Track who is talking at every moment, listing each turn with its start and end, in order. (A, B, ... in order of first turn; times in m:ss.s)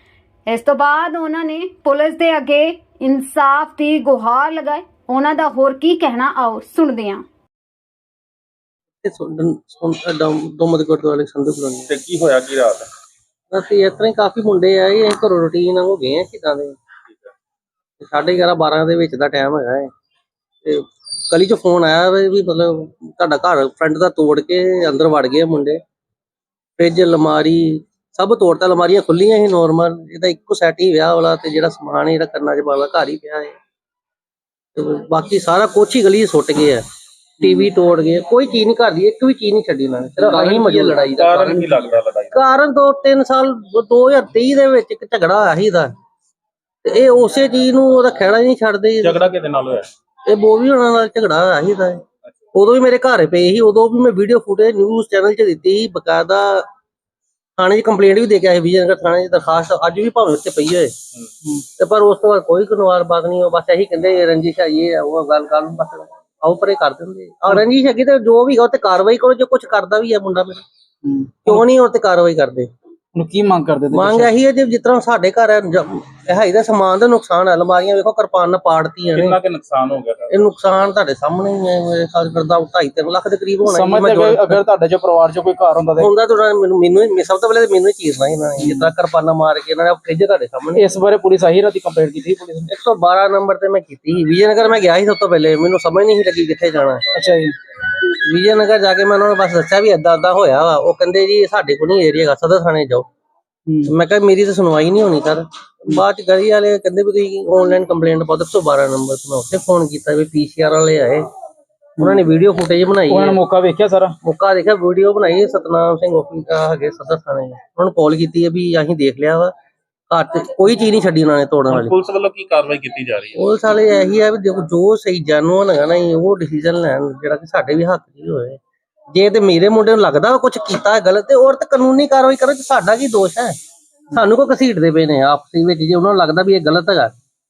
0:00.5-0:07.2 A
0:09.0-0:11.9 B
0:11.9-0:12.9 C
0:13.5-0:16.8 B
0:18.0-0:19.9 B
0:20.6-0:25.8 B
0:26.8-0:33.6 B
0:34.8-0:36.8 B
0:37.4-0:45.9 B
0:40.2-0:42.4 C
0:46.8-0:49.2 B
0:49.0-0:49.9 C
0:50.3-0:52.0 B
0:52.6-0:56.7 B
0:57.6-1:00.9 B
1:01.8-1:10.6 B
1:11.0-1:11.7 D
1:11.4-1:12.7 B
1:13.2-1:14.3 D
1:13.9-1:19.4 B
1:19.1-1:20.3 C
1:20.3-1:24.6 B
1:23.6-1:26.1 D
1:26.0-1:30.8 B
1:28.6-1:28.9 D
1:30.7-1:32.7 D
1:32.7-1:37.0 B
1:37.1-1:37.6 D
1:38.2-1:43.1 B
1:43.7-1:43.9 D
1:43.9-1:51.3 B
1:52.0-1:53.4 B
1:53.1-1:54.2 D
1:54.2-1:59.5 B
2:00.1-2:02.0 B
2:01.8-2:03.4 C
2:03.4-2:08.6 B
2:09.1-2:13.6 B
2:14.1-2:17.2 B